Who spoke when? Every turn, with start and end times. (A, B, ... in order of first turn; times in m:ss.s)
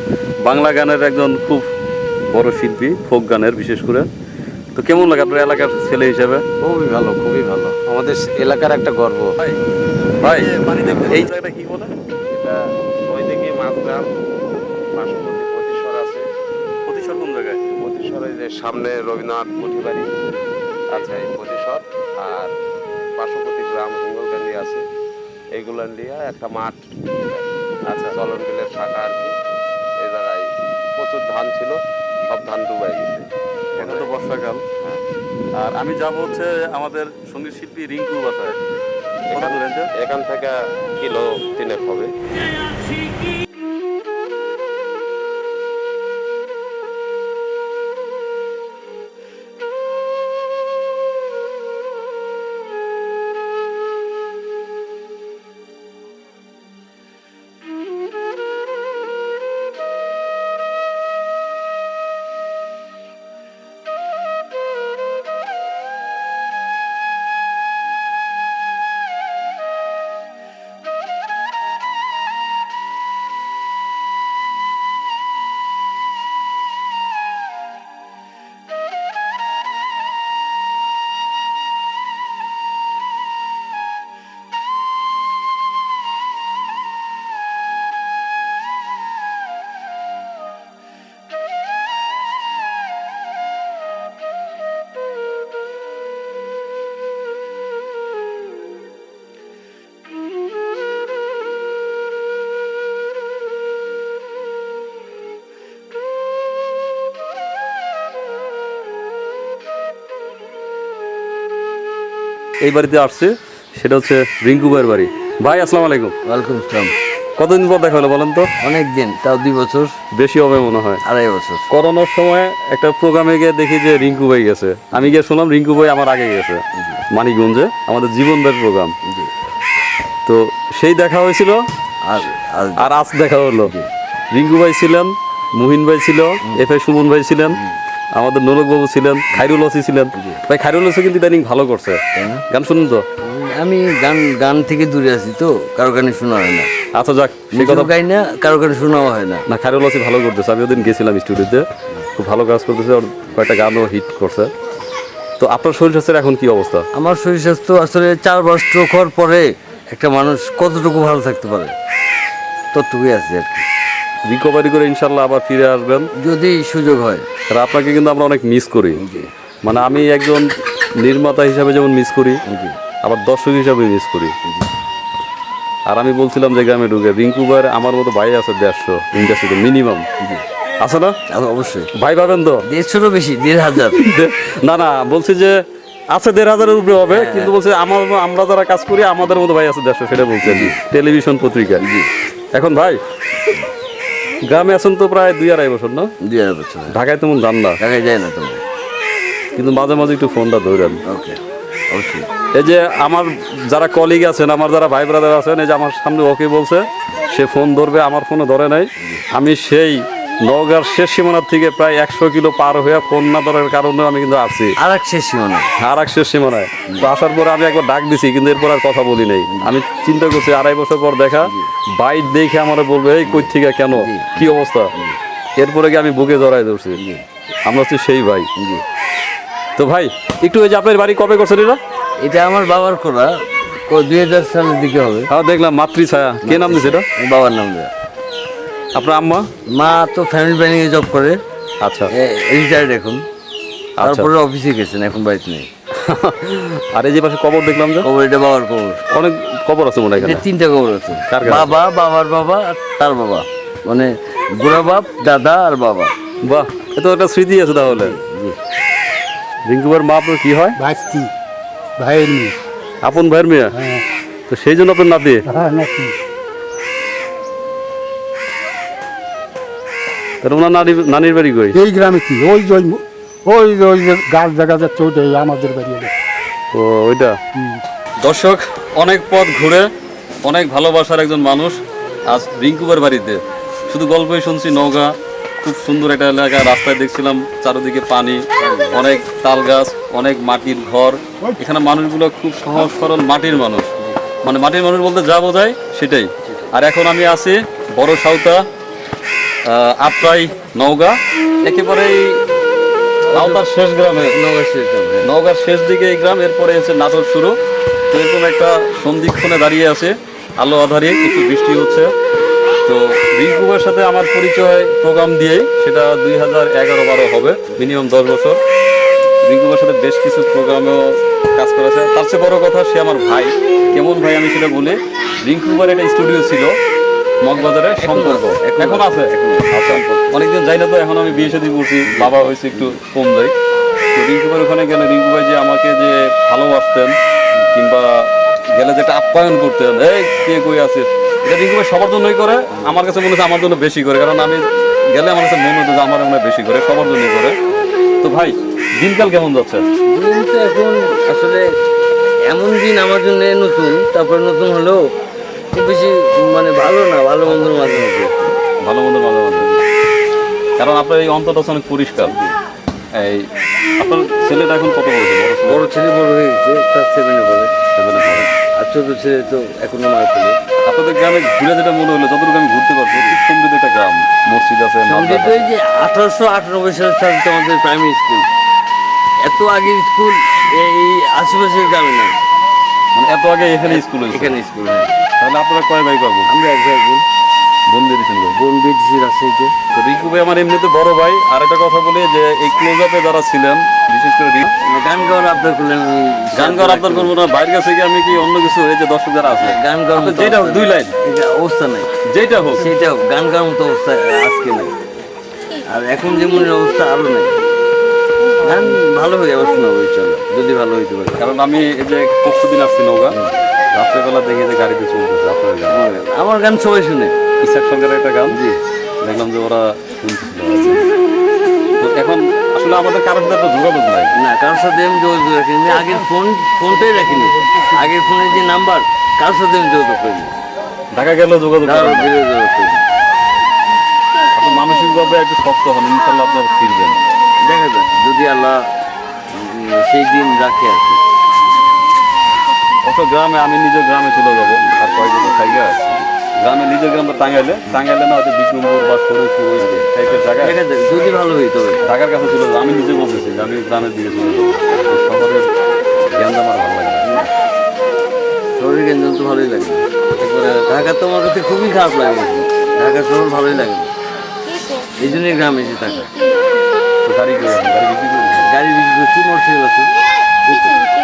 0:00.4-0:01.6 A
0:02.3-0:04.1 A
0:04.8-0:06.4 A
0:06.6-0:08.0 B
0:07.9-0:09.3 C
0:08.7-0:09.1 B
0:10.2-0:11.9 A
0:10.3-0:10.6 C
0:12.3-0:14.1 C
0:14.9-0:16.2 C
0:16.9-0:17.6 A
0:17.8-0:20.1 C
0:20.9-0:22.5 C
0:20.9-0:21.2 A
0:23.2-0:24.8 C
0:25.5-0:29.3 C
0:27.9-0:28.1 A
0:30.0-0:34.1 C
0:33.8-0:34.6 A
0:35.6-0:38.6 A
0:39.3-0:42.1 C
0:39.3-0:39.9 A
1:52.6-1:56.1 A
1:56.2-1:56.9 B
1:57.4-1:58.5 A
1:58.6-2:00.0 B
2:00.1-2:01.0 A
2:01.0-2:01.7 B
2:01.7-2:08.9 A
2:06.8-2:07.0 B
2:09.1-2:09.3 B
2:10.2-2:11.6 A
2:12.0-2:12.9 B
2:12.8-2:13.7 A
2:14.3-2:17.6 A
2:18.2-2:23.0 A
2:20.2-2:20.4 B
2:22.2-2:22.4 B
2:23.2-2:26.7 B
2:26.9-2:27.9 A
2:27.5-2:29.5 B
2:29.5-2:34.5 A
2:35.4-2:36.8 A
2:36.9-2:41.7 B
2:42.7-2:43.7 B
2:44.3-2:46.1 A
2:46.2-2:47.3 B
2:47.5-2:49.0 A
2:49.0-2:49.3 B
2:49.6-2:50.5 A
2:51.0-2:52.4 A
2:52.5-2:52.8 B
2:53.0-2:54.4 A
2:55.9-3:00.0 A
3:00.8-3:01.2 A
3:01.3-3:01.9 B
3:01.9-3:02.6 A
3:02.7-3:04.0 B
3:03.9-3:05.6 A
3:06.1-3:11.8 A
3:07.1-3:07.5 B
3:10.4-3:10.8 B
3:11.8-3:12.1 B
3:12.5-3:13.0 A
3:14.5-3:16.1 A
3:16.2-3:17.0 B
3:16.9-3:17.8 A
3:17.8-3:18.6 B
3:19.5-3:21.0 A
3:21.1-3:22.3 B
3:22.5-3:34.8 A
3:34.8-3:35.7 B
3:35.8-3:44.9 A
3:39.5-3:39.7 B
3:41.4-3:41.7 B
3:43.2-3:45.2 B
3:45.6-3:47.0 A
3:47.0-3:47.2 B
3:47.6-3:48.5 A
3:48.6-3:48.8 B
3:49.8-3:51.8 A
3:52.2-3:55.3 B
3:55.3-3:57.1 A
3:56.4-3:57.9 B
3:58.9-3:59.5 A
3:59.7-4:01.4 B
4:01.8-4:02.1 A
4:02.1-4:03.2 B
4:04.0-4:04.3 A
4:04.0-4:05.7 B
4:06.0-4:08.1 A
4:08.0-4:09.0 B
4:09.1-4:10.4 A
4:10.2-4:16.1 B
4:11.3-4:11.7 A
4:16.4-4:18.2 A
4:17.9-4:18.6 B
4:19.7-4:20.8 A
4:20.8-4:21.3 D
4:22.0-4:22.6 D
4:23.0-4:23.8 A
4:23.8-4:24.0 D
4:24.5-4:25.5 A
4:25.5-4:26.2 D
4:30.4-4:31.8 A
4:31.7-4:36.1 D
4:36.7-4:37.4 A
4:37.6-4:37.8 D
4:38.2-4:39.9 A
4:40.4-4:58.6 A
4:48.6-4:49.0 B
4:56.5-4:56.7 B
4:59.6-5:02.4 A
5:03.3-5:03.6 B
5:03.3-5:04.4 A
5:04.3-5:05.3 B
5:05.2-5:07.6 A
5:08.1-5:12.1 A
5:12.8-5:18.6 A
5:19.5-5:26.8 A
5:27.4-5:33.5 A
5:27.5-5:30.4 B
5:31.3-5:31.6 B
5:32.1-5:33.0 B
5:34.1-5:37.2 A
5:37.7-5:47.6 A
5:48.2-5:49.9 A
5:50.1-5:51.6 B
5:52.4-5:55.0 B
5:55.7-5:58.5 B
5:58.8-5:59.7 A
6:00.8-6:02.4 A
6:02.3-6:02.6 B
6:03.1-6:03.5 A
6:04.0-6:05.9 A
6:05.7-6:07.7 B
6:07.9-6:08.5 A
6:08.4-6:10.6 B
6:10.8-6:15.7 A
6:15.0-6:18.5 B
6:19.4-6:22.4 B
6:23.1-6:24.6 A
6:23.8-6:25.1 B
6:25.4-6:26.5 A
6:26.5-6:27.2 B
6:27.9-6:28.6 A
6:28.5-6:29.8 B
6:29.9-6:34.7 A
6:34.8-6:37.4 B
6:36.6-6:41.1 A
6:39.4-6:42.1 B
6:42.3-6:42.9 A
6:42.8-6:45.0 B
6:45.9-6:47.5 B
6:48.6-6:51.4 B
6:51.4-6:53.4 A
6:53.9-6:56.0 A
6:55.9-6:57.4 B
6:57.6-6:58.6 A
6:58.5-6:58.8 B
6:59.2-7:01.1 A
7:02.0-7:04.3 A
7:04.4-7:10.6 B
7:11.1-7:12.3 A
7:11.8-7:13.0 B
7:14.6-7:17.2 A
7:17.6-7:18.9 B
7:19.5-7:21.2 B
7:23.0-7:26.0 A
7:26.6-7:30.8 A
7:30.6-7:32.0 B
7:32.0-7:35.7 A
7:36.3-7:37.3 A
7:37.3-7:37.5 B
7:38.8-7:40.0 B
7:40.4-7:40.9 A
7:40.9-7:44.1 B
7:45.2-7:46.3 B
7:47.3-7:48.7 A
7:48.6-7:50.1 B
7:50.6-7:51.0 B